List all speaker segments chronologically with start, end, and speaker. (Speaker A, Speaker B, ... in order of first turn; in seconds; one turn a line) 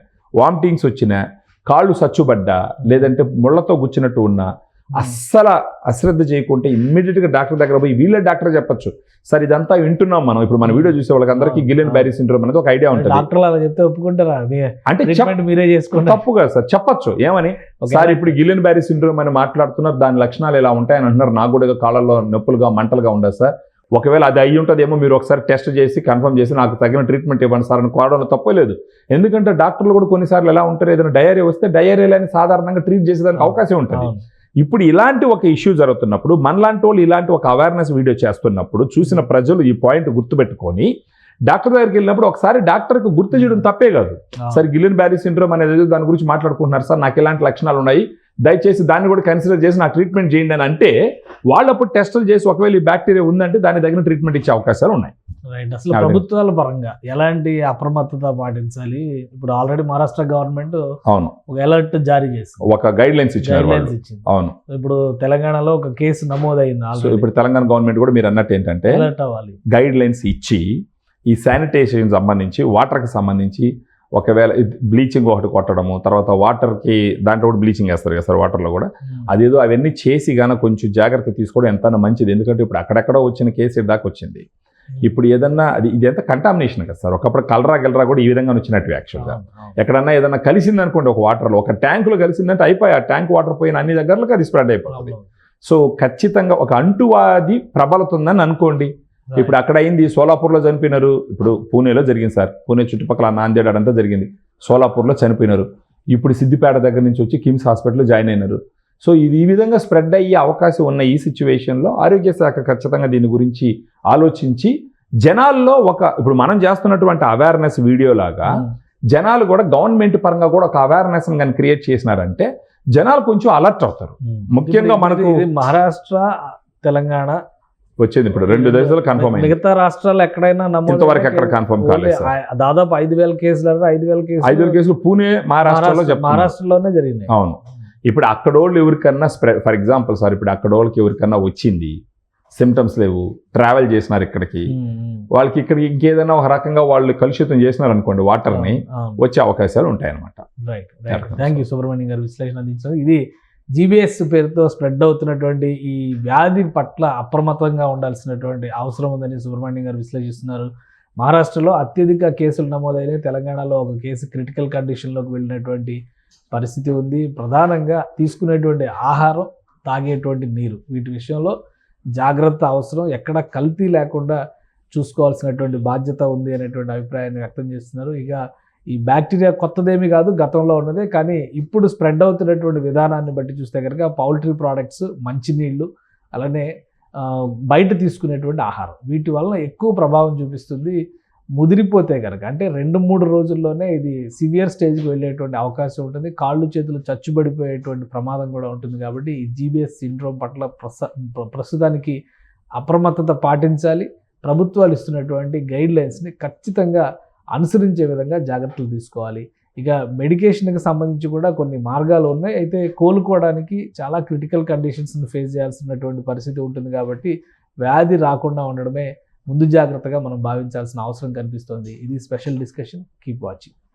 Speaker A: 0.4-13.3
Speaker B: 10.6-12.1
Speaker B: 12.9-16.2
Speaker A: 14.9-15.4
Speaker A: 15.9-40.9
Speaker B: 17.8-18.4
Speaker B: 33.3-34.2
Speaker A: 41.5-50.9
Speaker B: 43.3-43.6
Speaker B: 44.4-44.6
Speaker A: 51.5-55.1
Speaker B: 55.5-60.8
Speaker A: 55.9-56.2
Speaker A: 61.1-61.4
Speaker B: 61.5-62.7
Speaker A: 62.6-64.6
Speaker B: 63.4-67.3
Speaker A: 67.0-69.1
Speaker B: 68.9-69.6
Speaker A: 69.7-70.7
Speaker A: 71.3-84.5
Speaker A: 85.0-114.7
Speaker B: 89.2-89.8
Speaker B: 94.9-95.2
Speaker B: 99.3-99.6
Speaker A: 115.2-125.4
Speaker B: 124.3-126.2
Speaker B: 126.8-127.4
Speaker A: 128.0-129.6
Speaker B: 128.4-134.8
Speaker A: 130.9-132.3
Speaker A: 134.4-136.5
Speaker B: 135.6-137.3
Speaker A: 137.3-142.0
Speaker A: 142.6-144.7
Speaker B: 144.7-145.3
Speaker A: 145.3-150.4
Speaker B: 148.5-149.2
Speaker B: 150.6-153.2
Speaker A: 151.1-151.6
Speaker B: 153.8-160.7
Speaker B: 161.2-166.0
Speaker B: 166.5-171.5
Speaker B: 172.2-174.4
Speaker B: 174.9-178.4
Speaker B: 178.9-186.7
Speaker B: 187.2-191.0
Speaker B: 191.6-202.2
Speaker B: 202.8-223.7